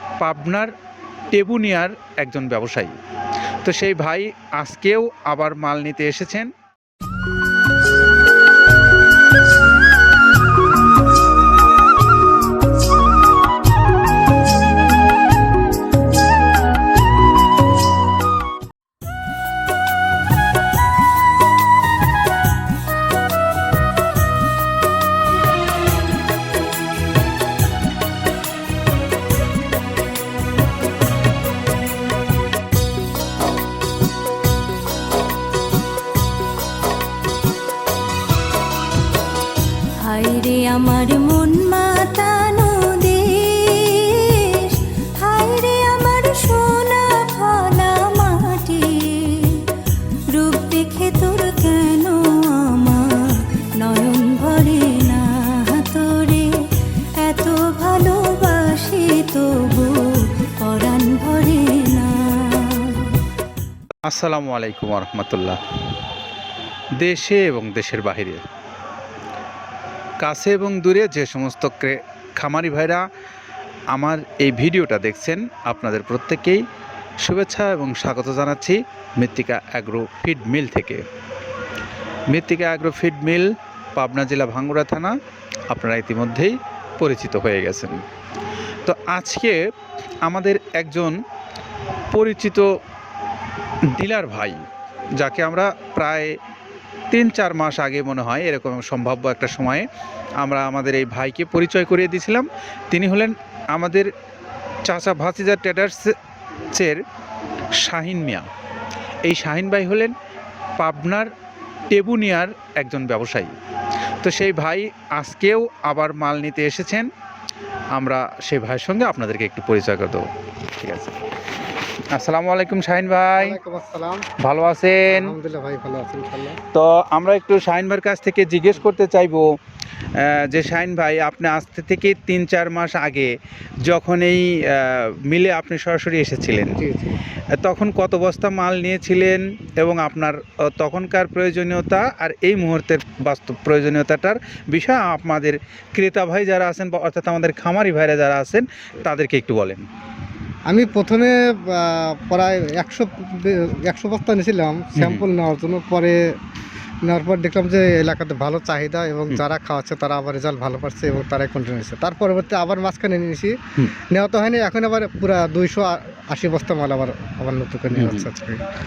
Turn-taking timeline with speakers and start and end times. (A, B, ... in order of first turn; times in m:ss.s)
0:00.2-0:00.7 A
0:01.3-0:03.0 A
0:03.6-0:06.5 A
0:40.0-0:49.7 B
0:50.3-0:56.5 B
0:57.2-1:03.2 B
1:04.0-1:05.6 A
1:07.0-1:08.4 A
1:10.2-1:13.0 A
1:13.9-1:16.6 A
1:17.2-1:21.0 A
1:22.3-1:25.2 A
1:25.7-1:28.0 A
1:28.8-1:29.6 A
1:30.2-1:31.2 A
1:32.1-1:32.7 A
1:33.9-1:36.4 A
1:37.1-1:39.8 A
1:40.4-1:44.1 A
1:44.8-1:46.2 A
1:46.7-1:47.0 A
1:47.8-1:48.5 A
1:49.2-1:50.1 A
1:50.8-1:51.3 A
1:51.9-1:53.5 A
1:54.2-1:57.1 A
1:57.9-2:01.2 A
2:02.1-2:03.6 A
2:03.4-2:04.3 C
2:04.4-2:05.3 A
2:05.1-2:06.6 C
2:06.7-2:09.5 A
2:10.2-2:13.3 A
2:13.8-2:16.8 A
2:16.7-2:17.2 C
2:17.5-2:29.8 A
2:30.7-2:36.3 C
2:35.0-2:35.2 A
2:37.0-2:48.6 C
2:48.0-2:48.3 A